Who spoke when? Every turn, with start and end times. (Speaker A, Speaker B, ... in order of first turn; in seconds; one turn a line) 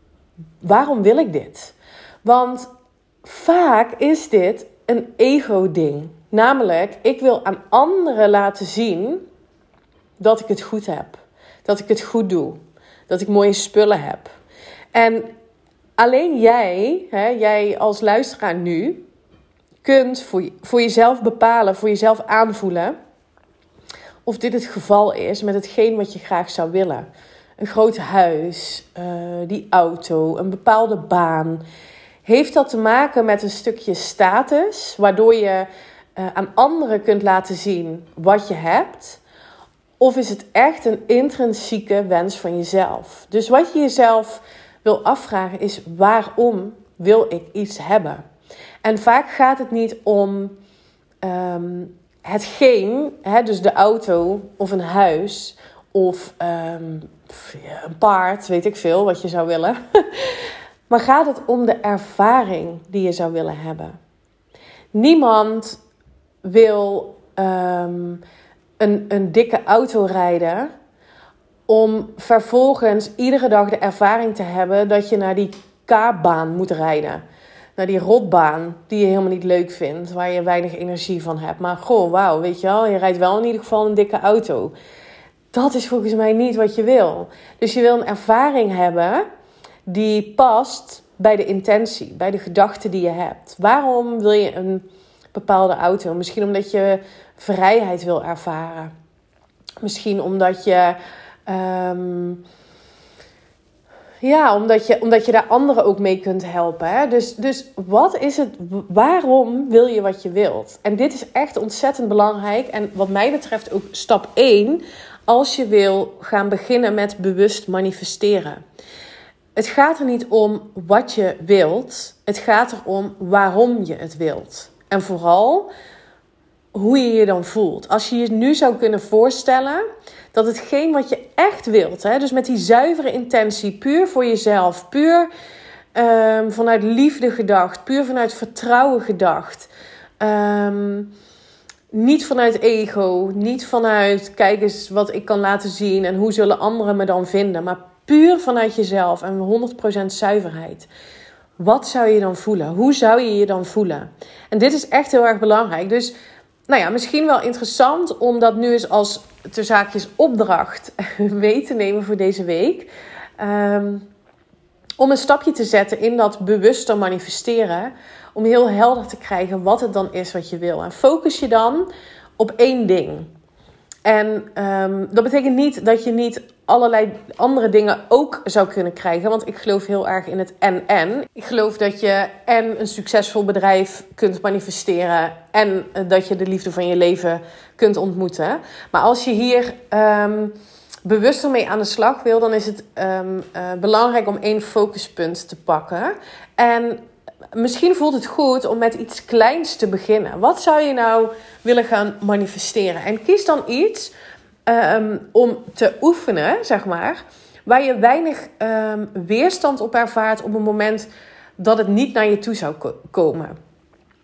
Speaker A: 0.6-2.7
Speaker A: 3.2-9.2
Speaker A: 10.2-14.3
Speaker A: 14.9-15.3
Speaker A: 16.0-19.0
Speaker A: 19.8-22.9
Speaker A: 24.2-27.1
Speaker A: 27.6-31.6
Speaker A: 32.2-39.2
Speaker A: 40.0-48.2
Speaker A: 48.8-50.6
Speaker A: 51.2-64.0
Speaker A: 64.9-65.8
Speaker A: 66.4-68.2
Speaker A: 68.8-70.7
Speaker A: 71.7-77.2
Speaker A: 77.8-84.7
Speaker A: 85.5-89.2
Speaker A: 89.8-98.9
Speaker A: 99.8-102.4
Speaker A: 104.2-118.6
Speaker A: 119.5-125.7
Speaker A: 126.7-135.3
Speaker A: 135.9-141.1
Speaker A: 141.9-150.9
Speaker A: 151.6-156.1
Speaker A: 156.7-164.1
Speaker A: 165.0-173.3
Speaker A: 174.0-197.0
Speaker A: 197.5-204.1
Speaker A: 204.7-211.1
Speaker A: 211.6-213.5